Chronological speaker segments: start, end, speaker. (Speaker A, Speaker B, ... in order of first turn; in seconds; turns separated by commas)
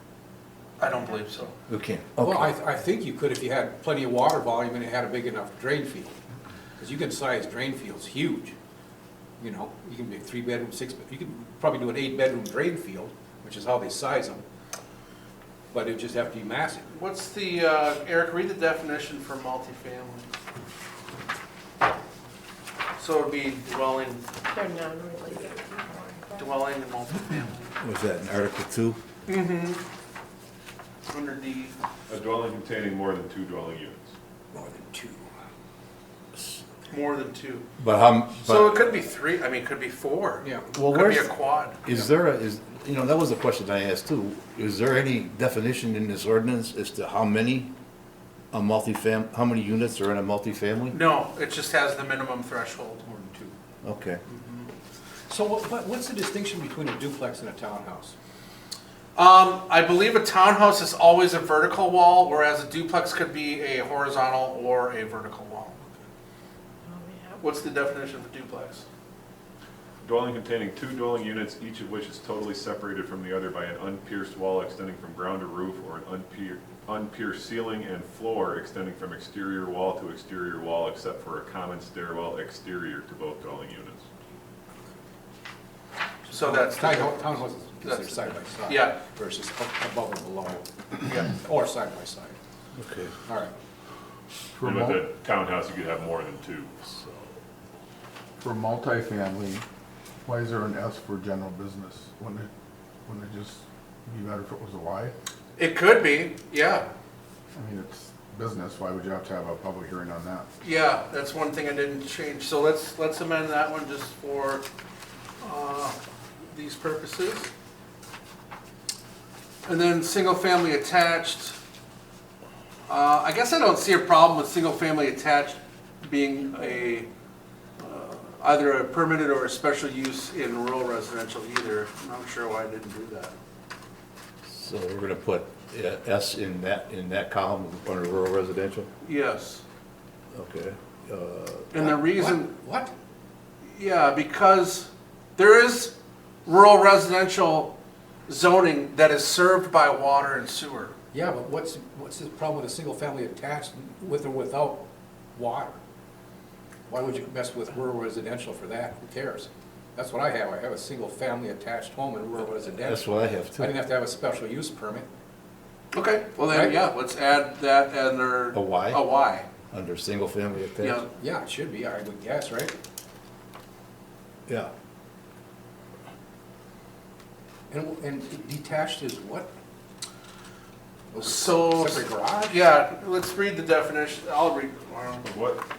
Speaker A: 0.8-1.6, Speaker B: 1.7-2.5, Speaker C: 2.2-6.2, Speaker C: 6.8-8.6, Speaker C: 9.4-14.4, Speaker C: 15.7-16.9, Speaker A: 16.9-20.3, Speaker A: 23.0-24.3, Speaker D: 24.5-26.6, Speaker A: 26.4-27.7, Speaker B: 27.8-29.0, Speaker A: 29.3-29.8, Speaker A: 31.1-31.8, Speaker E: 32.1-34.1, Speaker C: 34.5-35.3, Speaker A: 36.9-37.6, Speaker B: 37.8-38.8, Speaker A: 38.4-41.8, Speaker C: 40.4-40.7, Speaker B: 40.7-47.7, Speaker B: 48.5-51.0, Speaker A: 50.9-53.5, Speaker B: 53.8-54.2, Speaker A: 54.3-54.7, Speaker C: 55.3-58.1, Speaker A: 59.2-66.0, Speaker D: 66.9-67.4, Speaker A: 67.4-68.8, Speaker E: 70.0-84.1, Speaker C: 86.3-92.4, Speaker A: 86.3-89.0, Speaker B: 92.8-93.1, Speaker C: 93.3-93.5, Speaker F: 94.5-95.1, Speaker E: 94.6-97.3, Speaker F: 98.4-99.6, Speaker F: 100.2-102.5, Speaker F: 103.1-105.1, Speaker A: 105.6-106.9, Speaker F: 107.5-110.5, Speaker A: 110.6-114.6, Speaker A: 115.4-116.0, Speaker A: 116.5-117.5, Speaker A: 119.7-121.6, Speaker A: 122.9-127.1, Speaker A: 127.8-133.3, Speaker B: 134.5-138.9, Speaker A: 139.0-139.6, Speaker B: 140.3-141.7, Speaker A: 141.7-142.5, Speaker C: 141.8-142.9, Speaker A: 143.7-147.8, Speaker A: 148.3-150.9, Speaker C: 151.1-154.8, Speaker C: 155.3-155.8, Speaker C: 156.9-165.1, Speaker B: 162.7-163.7, Speaker A: 165.9-169.5, Speaker C: 166.5-166.8, Speaker B: 168.5-169.2, Speaker B: 169.7-171.1, Speaker A: 170.8-171.1, Speaker C: 171.2-172.8, Speaker C: 177.7-179.5, Speaker C: 181.1-182.6, Speaker A: 181.2-185.2, Speaker E: 185.2-185.7